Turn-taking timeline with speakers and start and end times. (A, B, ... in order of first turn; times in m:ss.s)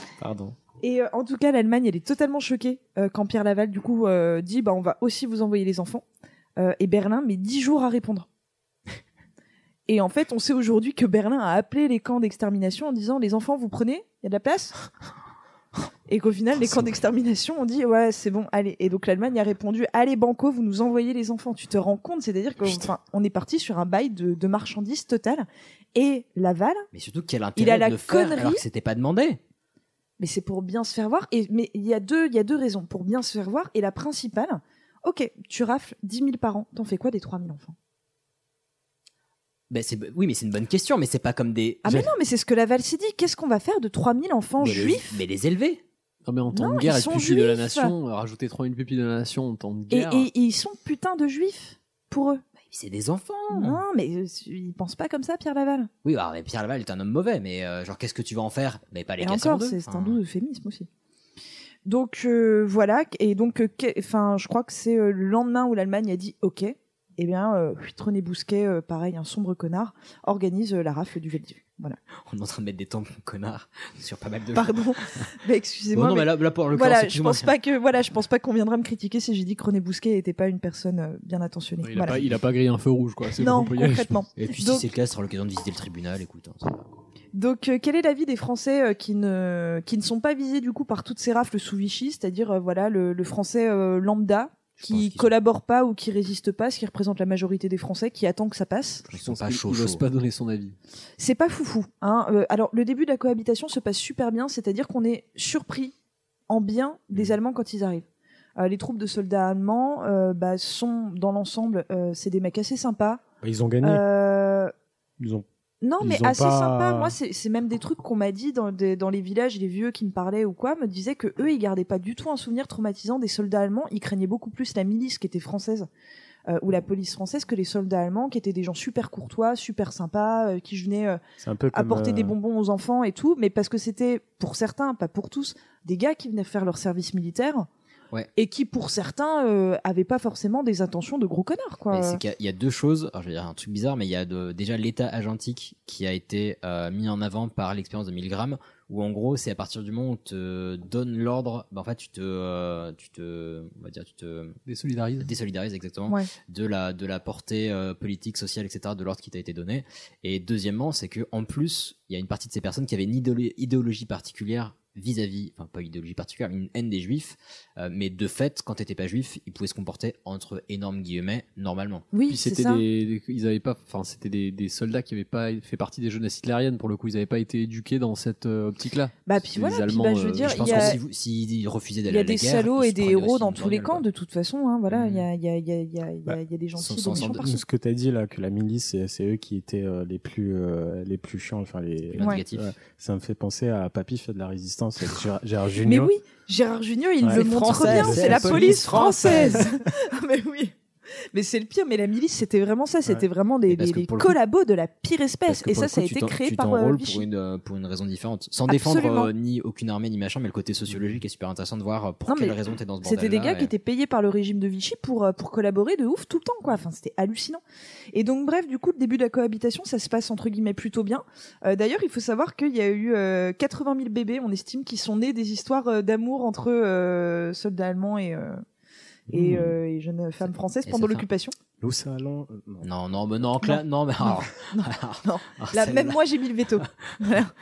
0:00.2-0:00.6 A
0:00.8-0:06.0 B
0:06.6-0:08.3 B
0:09.9-0:14.8 B
0:16.1-0:26.9 B
0:26.9-0:29.4 C
0:27.6-0:28.6 B
0:30.2-0:37.8 B
0:39.7-0:42.1 C
0:41.8-0:45.2 B
0:44.6-0:45.8 C
0:46.2-0:50.3 D
0:46.5-0:48.0 B
0:49.9-0:52.4 B
0:52.7-0:53.8 C
0:53.5-0:55.9 B
0:56.0-1:00.2 C
0:59.2-1:00.9 B
1:01.8-1:12.0 B
1:12.3-1:14.8 C
1:14.6-1:22.3 B
1:15.9-1:17.5 C
1:21.8-1:24.1 D
1:23.4-1:24.9 B
1:24.4-1:26.9 C
1:27.3-1:39.1 B
1:34.8-1:35.3 C
1:39.1-1:40.0 C
1:39.2-1:40.8 D
1:41.2-1:45.9 B
1:46.5-1:48.0 B
1:48.6-1:53.2 B
1:53.4-1:54.0 A
1:53.8-1:54.7 B
1:55.2-1:55.5 A
1:55.8-2:05.9 B
1:56.0-1:57.2 A
2:06.5-2:11.2 B
2:11.4-2:12.4 A
2:11.7-2:17.7 B
2:18.4-2:22.2 B
2:21.9-2:34.6 C
2:34.7-2:35.3 D
2:35.2-2:52.1 C
2:52.1-2:52.8 B
2:52.3-3:01.0 D
2:59.3-3:01.0 B
3:00.4-3:04.0 C
3:02.1-3:07.6 B
3:04.9-3:05.2 C
3:06.8-3:07.4 C
3:07.1-3:16.1 A
3:12.1-3:12.7 C
3:12.2-3:12.4 B
3:15.8-3:20.8 B
3:17.2-3:19.7 A
3:17.3-3:19.7 C
3:21.3-3:27.3 B
3:23.7-3:24.4 C
3:25.5-3:33.7 C
3:28.7-3:29.3 B
3:32.3-3:37.6 B
3:38.1-3:48.6 B
3:49.3-3:51.6 B
3:49.3-3:49.7 A
3:50.4-3:51.3 C
3:51.8-3:52.9 A
3:52.8-3:56.2 C
3:53.6-3:57.5 B
3:56.8-3:57.1 C